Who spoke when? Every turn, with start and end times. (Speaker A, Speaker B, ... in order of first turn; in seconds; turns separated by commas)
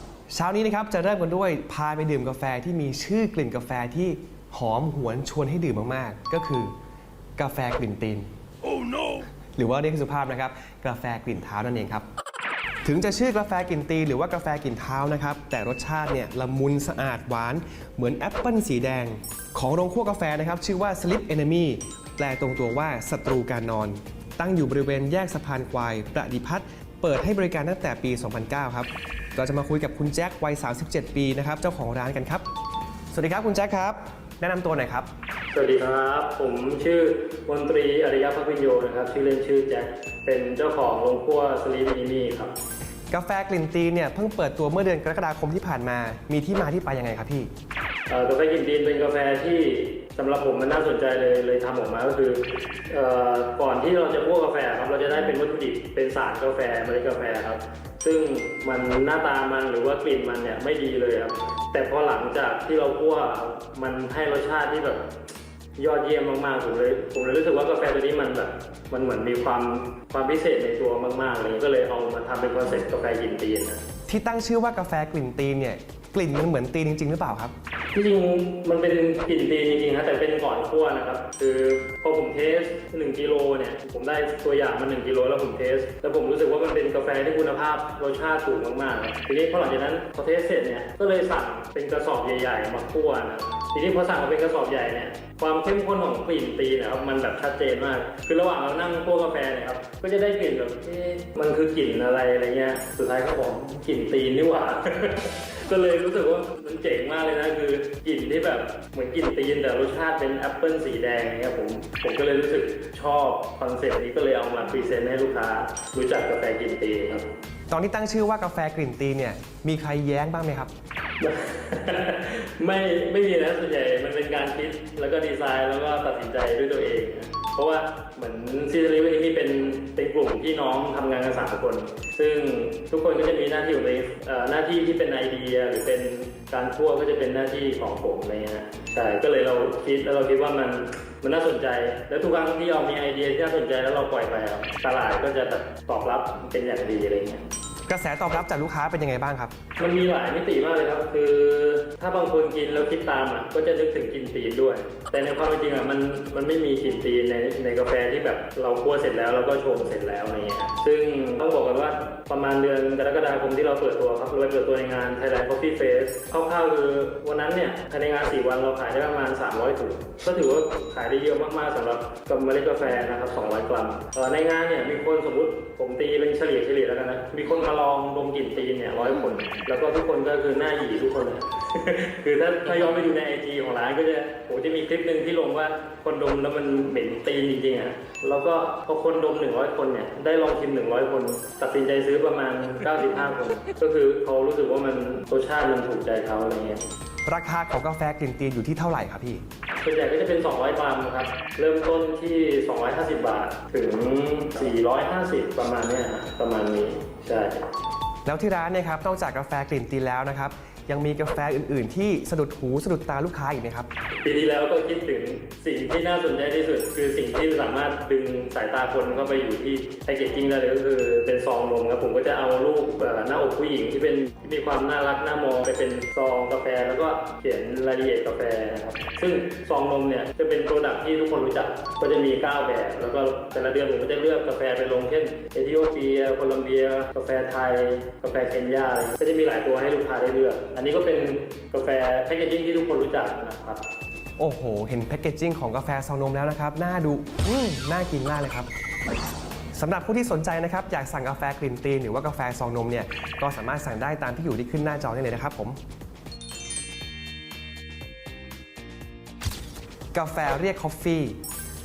Speaker A: 0.3-6.7, Speaker A: 7.4-8.3, Speaker A: 8.9-12.1, Speaker A: 12.8-32.5, Speaker A: 33.1-35.1, Speaker B: 35.5-42.5, Speaker A: 43.1-47.5, Speaker B: 48.1-65.1, Speaker B: 65.8-73.8, Speaker A: 74.1-77.5, Speaker B: 77.9-117.2, Speaker A: 117.7-120.7, Speaker B: 121.2-147.4, Speaker A: 147.9-149.5, Speaker B: 149.8-196.8, Speaker A: 197.3-199.4, Speaker B: 199.8-207.7, Speaker A: 208.2-213.9, Speaker B: 214.2-243.8, Speaker A: 244.4-248.7, Speaker A: 249.7-255.8, Speaker A: 260.1-261.4